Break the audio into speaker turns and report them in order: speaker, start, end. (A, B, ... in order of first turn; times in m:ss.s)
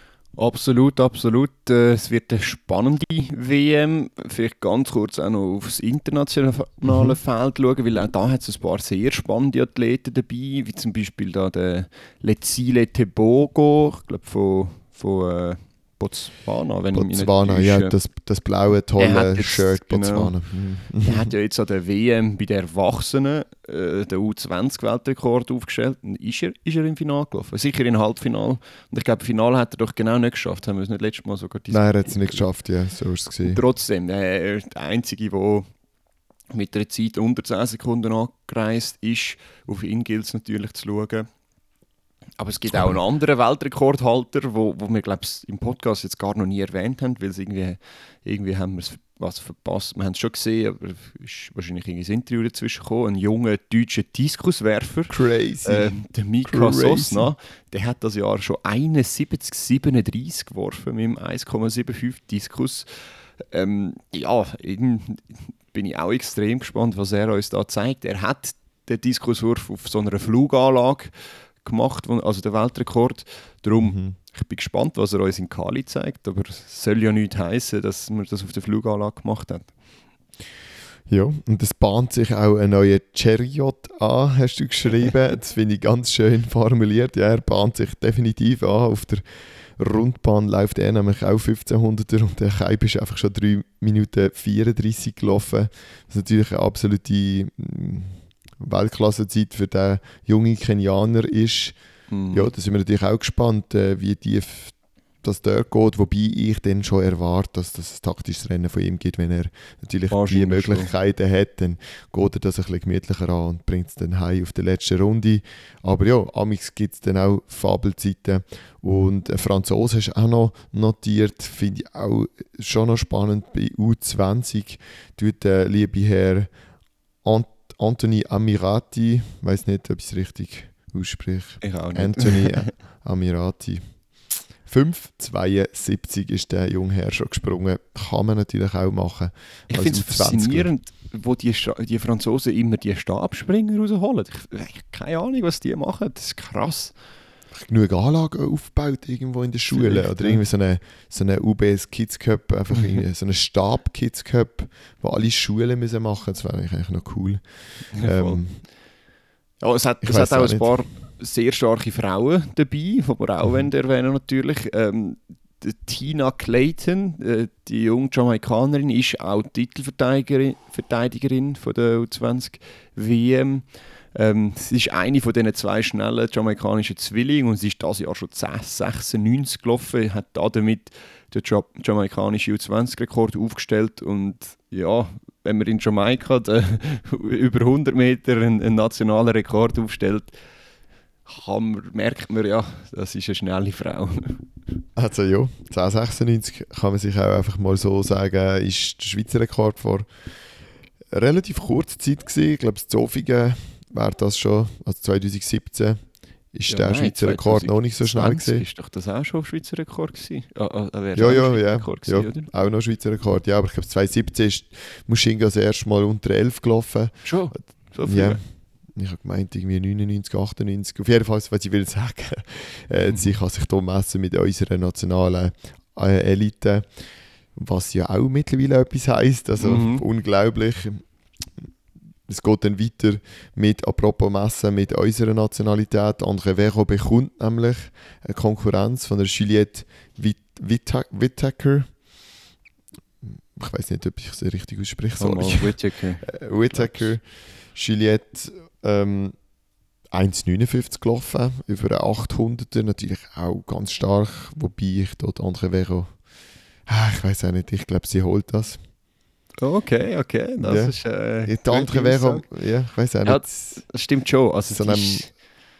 0:00.4-0:17.9 A
0:06.9-0:07.2 B
0:16.9-0:21.3 B
0:19.0-0:20.3 A
0:21.0-0:32.5 A
0:31.7-0:33.6 B
0:33.4-0:35.7 A
0:36.5-0:41.3 A
0:42.4-0:55.1 A
0:42.7-0:43.0 B
0:55.1-0:57.3 B
0:55.6-1:02.9 A
1:03.4-1:11.1 A
1:11.6-1:19.7 A
1:13.8-1:14.2 B
1:21.1-1:29.2 B
1:29.8-1:41.8 B
1:42.1-1:42.5 A
1:42.3-2:06.5 B
1:50.1-1:50.9 A
2:07.2-2:13.9 B
2:11.6-2:12.7 A
2:14.6-2:20.7 B
2:19.7-2:26.9 A
2:27.6-2:37.4 B
2:29.7-2:30.4 A
2:37.9-2:38.6 B
2:38.0-2:38.4 A
2:39.6-3:10.4 A
2:40.0-2:40.7 B
3:11.3-3:14.4 A
3:15.0-3:20.1 B
3:21.1-3:26.0 B
3:26.5-3:28.6 B
3:26.7-3:32.5 A
3:31.2-3:37.2 B
3:37.2-3:38.4 A
3:38.1-3:38.4 B
3:39.0-3:46.9 B
3:47.6-3:51.0 B
3:49.6-3:50.0 A
3:52.3-4:01.9 B
4:03.2-4:09.4 B
4:05.2-4:07.1 A
4:10.1-4:16.2 B
4:16.9-4:18.8 B
4:19.6-4:22.5 A
4:20.6-4:23.8 B
4:23.2-4:25.3 A
4:24.7-4:25.3 B